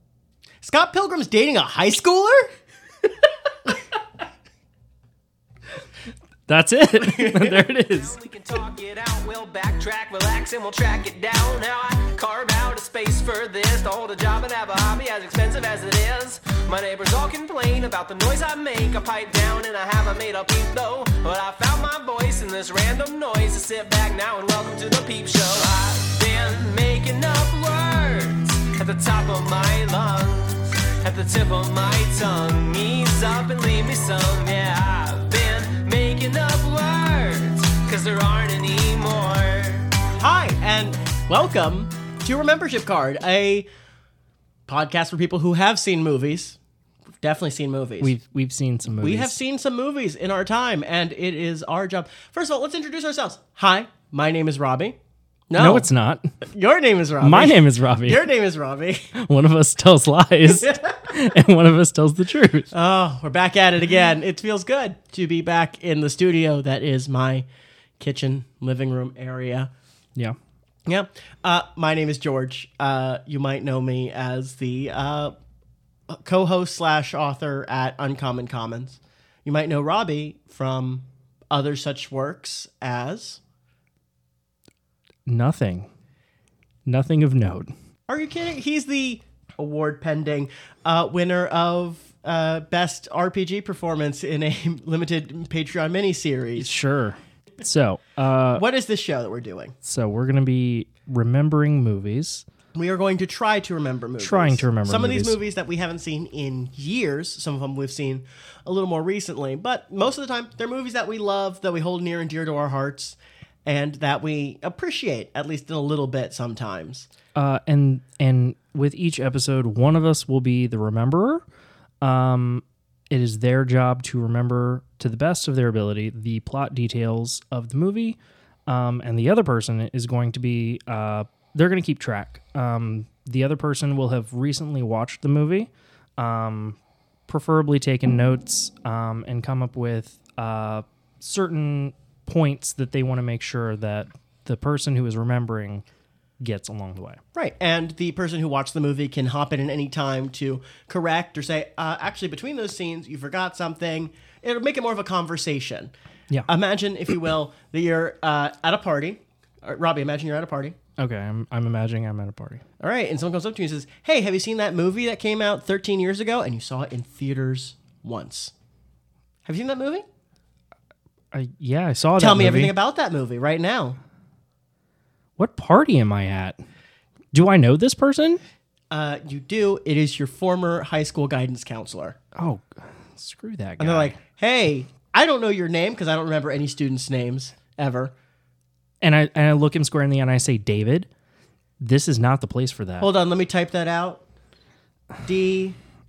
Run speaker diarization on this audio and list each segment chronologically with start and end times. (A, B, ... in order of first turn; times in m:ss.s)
0:00.6-0:02.5 A
0:06.5-0:08.2 B
0:07.8-0:40.0 C
0:40.2-0:43.7 A
0:44.7-0:46.6 A
0:47.2-0:48.2 A
0:48.0-0:49.4 B
0:49.0-0:55.0 A
0:55.5-0:55.9 A
0:55.6-0:56.3 B
0:56.4-0:59.1 A
0:57.2-0:58.3 B
0:59.2-1:02.7 B
1:00.5-1:01.1 A
1:02.7-1:07.4 A
1:08.0-1:09.7 A
1:10.9-1:15.4 A
1:16.1-1:23.4 A
1:25.3-1:25.9 B
1:26.8-1:27.7 B
1:28.1-1:36.7 A
1:36.6-1:38.6 B
1:38.5-1:39.8 A
1:39.8-1:42.5 B
1:42.7-1:57.1 A
1:44.2-1:45.4 B
1:57.4-2:01.4 B
2:02.0-2:25.8 B
2:26.4-2:27.2 B
2:27.4-2:35.9 A
2:36.5-2:40.8 A
2:41.0-2:42.6 B
2:42.8-2:48.5 A
2:49.5-2:50.0 A
2:51.3-2:52.7 B
2:52.2-2:54.0 A
2:55.4-2:56.6 B
2:57.3-2:58.4 B
2:58.9-3:02.2 A
3:02.4-3:04.2 B
3:03.8-3:08.1 A
3:09.0-3:11.1 B
3:11.8-3:13.1 B
3:13.0-3:14.2 A
3:15.2-3:15.8 A